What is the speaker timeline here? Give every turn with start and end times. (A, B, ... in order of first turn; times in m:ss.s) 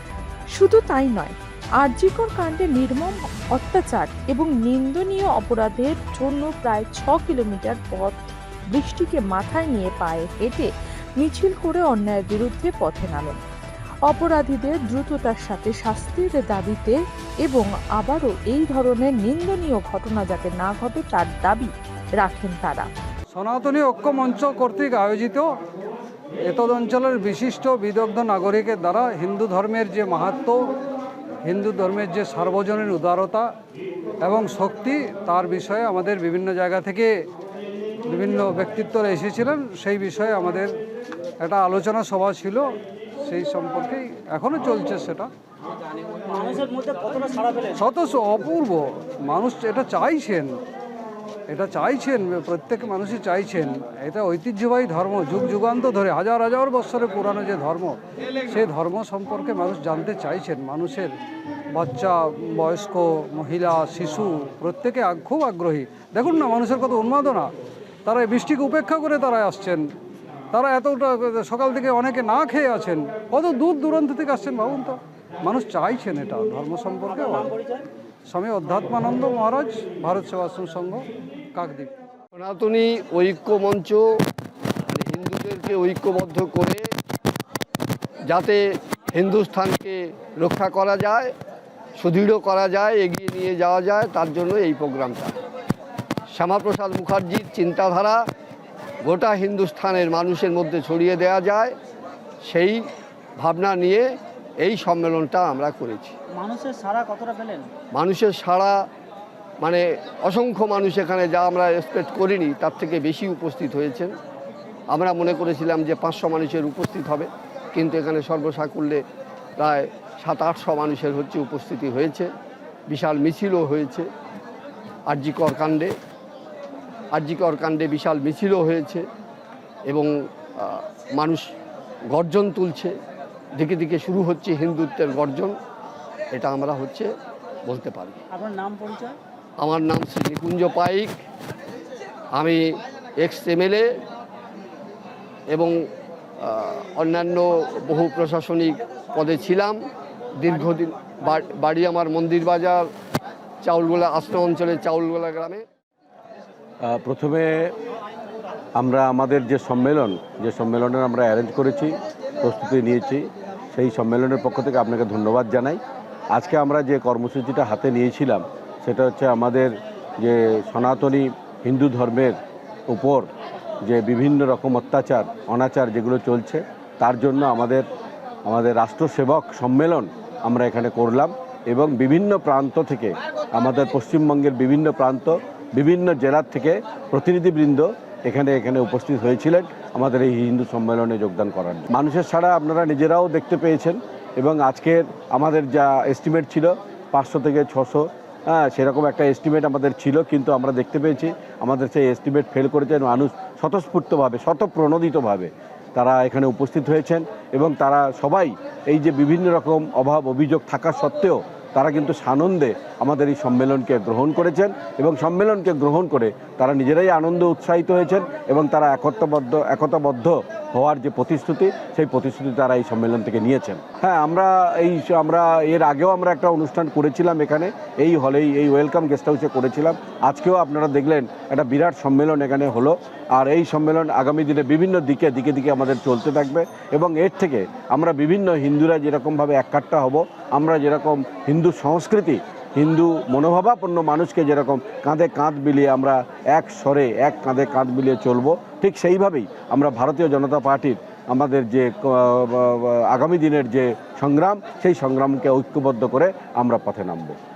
0:00.6-0:13.4 A
0:14.0-0:22.9 A
0:23.3-0:25.5 B
0:26.5-0:30.6 B
0:31.4-0:33.5 B
0:34.2-0:37.1 B
0:38.0-0:40.7 B
0:41.4-0:42.7 B
0:43.2-0:45.3 B
0:46.3-0:47.8 C
0:47.7-0:50.5 B
0:51.5-1:01.1 B
1:01.7-1:07.5 B
1:08.0-1:09.8 B
1:10.5-1:17.6 B
1:17.2-1:17.8 C
1:18.3-1:21.0 B
1:21.5-1:21.9 B
1:22.3-1:24.1 D
1:24.9-1:26.9 D
1:28.3-1:31.3 D
1:32.0-1:35.3 D
1:36.3-1:38.2 D
1:39.0-1:41.7 D
1:42.4-1:42.9 D
1:43.4-1:44.1 D
1:44.6-1:46.1 D
1:46.3-1:47.7 C
1:47.9-1:48.8 D
1:49.6-1:54.1 D
1:54.9-1:59.0 D
1:59.6-2:02.3 D
2:02.9-2:04.1 D
2:05.1-2:05.9 D
2:07.1-2:09.0 D
2:09.9-2:11.5 D
2:12.1-2:12.9 D
2:13.6-2:15.6 D
2:16.3-2:17.1 D
2:17.6-2:18.2 D
2:18.3-2:19.2 C
2:19.6-2:21.1 D
2:22.4-2:23.8 D
2:25.5-2:25.9 D
2:26.4-2:29.8 D
2:30.4-2:32.9 D
2:33.6-2:35.6 D
2:36.8-2:37.7 E
2:38.8-2:45.8 E
2:46.3-2:52.4 E
2:52.9-2:53.3 E
2:53.8-2:57.8 E
2:58.4-4:17.4 E